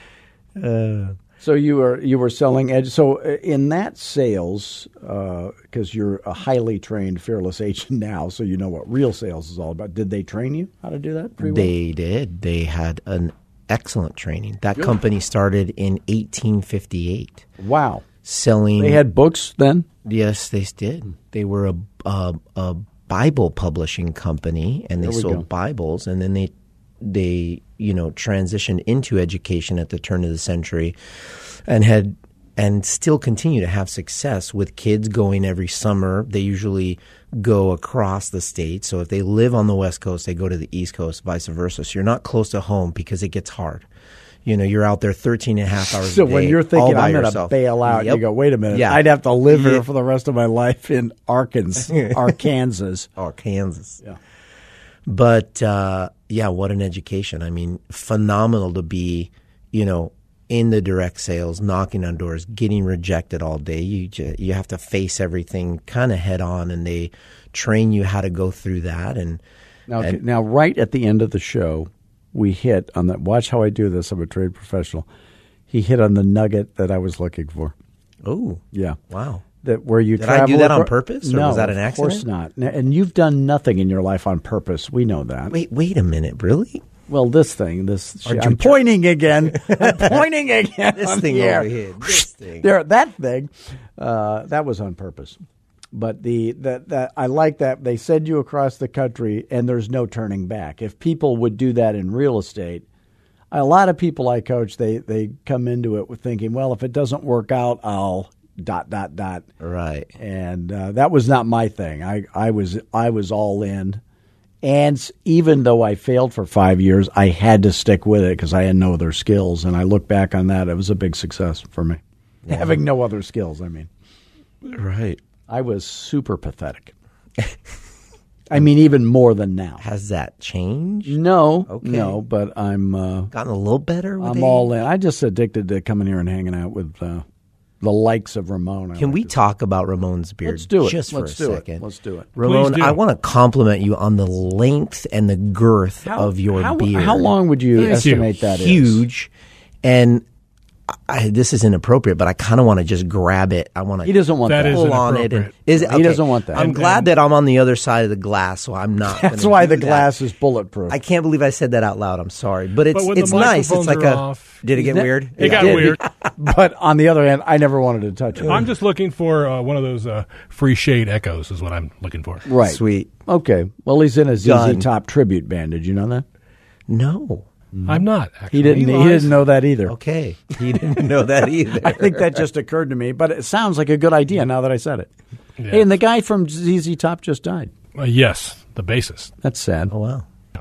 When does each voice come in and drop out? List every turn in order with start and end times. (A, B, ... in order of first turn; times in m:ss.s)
0:00.6-0:01.2 A
0:01.4-0:11.7 B
0:11.4-0:17.4 A
0:17.6-0:18.0 B
0:18.2-0:19.0 A
0:18.8-0:19.9 B
0:20.0-0:43.8 A
0:25.0-0:25.4 B
0:44.4-0:49.8 A
0:46.0-0:53.1 B
0:51.9-0:52.3 A
0:53.2-0:54.0 A
0:55.0-1:09.4 A
1:09.9-1:15.1 B
1:15.7-1:17.7 B
1:18.2-1:19.4 A
1:18.7-1:19.0 B
1:19.6-1:25.5 B
1:20.2-1:22.2 A
1:25.5-1:26.8 A
1:27.1-1:35.4 B
1:28.2-1:28.8 A
1:29.5-1:30.2 A
1:30.9-1:32.7 A
1:35.9-1:42.8 B
1:43.5-1:49.5 B
1:49.6-1:50.1 A
1:50.2-1:54.0 B
1:54.6-2:03.9 B
2:02.5-2:02.8 A
2:04.6-2:05.2 A
2:05.5-2:06.9 B
2:08.5-2:09.8 B
2:09.8-2:11.1 A
2:11.1-2:13.3 B
2:11.7-2:12.2 A
2:13.3-2:14.7 A
2:14.2-2:17.2 B
2:17.8-2:19.3 B
2:19.0-2:21.8 A
2:20.4-2:22.3 B
2:22.4-2:29.3 A
2:22.4-2:23.0 C
2:26.0-2:29.0 B
2:27.8-2:28.2 C
2:29.8-2:30.2 A
2:30.9-2:40.1 A
2:34.0-2:34.9 B
2:34.5-2:35.5 C
2:35.7-2:36.7 B
2:36.5-2:37.1 C
2:39.0-2:41.0 B
2:40.9-2:46.0 A
2:42.9-2:46.0 C
2:44.8-2:48.7 B
2:48.4-2:52.4 C
2:52.4-2:56.2 B
2:52.6-2:53.1 A
2:54.4-2:54.9 A
2:56.9-2:57.5 A
2:57.7-2:59.9 B
2:57.8-2:59.4 C
2:59.8-3:02.4 A
3:01.7-3:05.1 B
3:05.6-3:05.9 C
3:05.7-3:07.7 B
3:08.0-3:09.3 C
3:09.4-3:09.9 B
3:09.9-3:10.2 A